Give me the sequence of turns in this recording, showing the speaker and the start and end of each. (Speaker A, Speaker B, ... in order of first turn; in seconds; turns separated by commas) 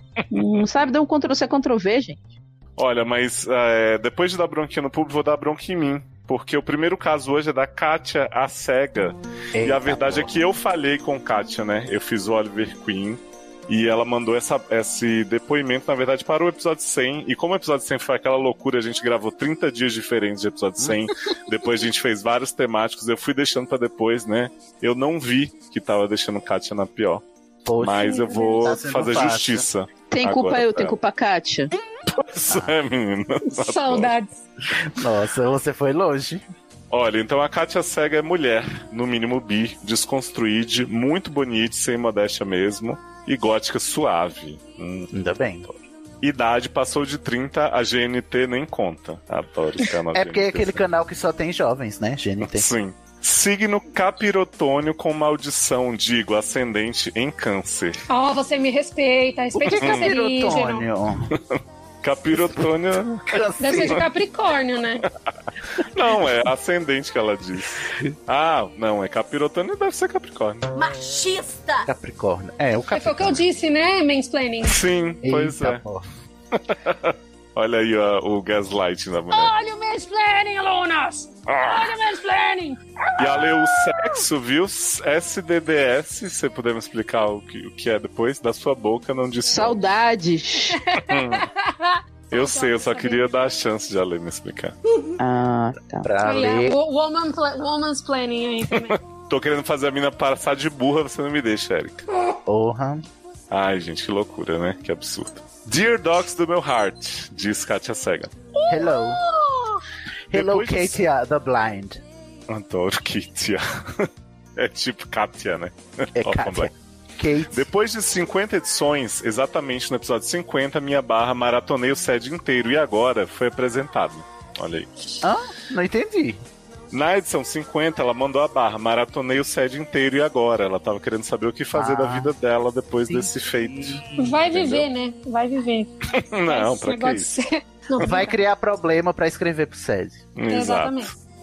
Speaker A: 0.3-2.2, Speaker B: 2.8-27.2, Speaker C: 9.6-10.3, Speaker C: 27.6-29.7, Speaker B: 27.8-30.9, Speaker D: 28.0-28.7, Speaker A: 30.1-31.7, Speaker B: 32.1-34.1, Speaker C: 32.5-32.8, Speaker D: 33.5-34.3, Speaker C: 34.9-36.4, Speaker B: 36.9-45.1, Speaker C: 45.1-45.7, Speaker B: 45.7-50.9, Speaker C: 50.1-52.7, Speaker B: 52.4-58.0, Speaker D: 58.1-60.9, Speaker C: 59.6-61.3, Speaker B: 59.7-60.1, Speaker B: 61.3-63.3, Speaker C: 63.3-64.0, Speaker D: 63.6-65.0, Speaker B: 65.8-70.7, Speaker D: 70.8-71.7, Speaker C: 71.8-73.4, Speaker D: 72.9-74.8, Speaker B: 74.6-75.8, Speaker C: 75.2-76.0, Speaker B: 76.5-79.5, Speaker D: 79.3-82.8, Speaker B: 81.5-81.9, Speaker B: 83.2-89.8, Speaker A: 89.5-90.8, Speaker D: 90.7-93.3, Speaker B: 91.0-91.5, Speaker B: 92.3-94.7, Speaker A: 95.2-96.1, Speaker C: 96.0-96.8, Speaker D: 96.2-99.0, Speaker B: 98.8-102.0, Speaker C: 102.5-103.0, Speaker B: 103.5-108.3, Speaker D: 108.6-109.8, Speaker C: 108.7-109.2, Speaker C: 110.3-112.0, Speaker B: 110.3-111.0, Speaker B: 112.5-116.7, Speaker C: 116.2-117.7, Speaker B: 117.5-124.9, Speaker C: 125.2-126.4, Speaker B: 126.9-134.9, Speaker C: 131.7-132.3, Speaker C: 133.1-134.1, Speaker D: 134.2-135.9, Speaker B: 136.1-137.4, Speaker D: 136.5-138.4, Speaker C: 138.0-140.2, Speaker B: 140.4-141.1, Speaker D: 140.5-141.1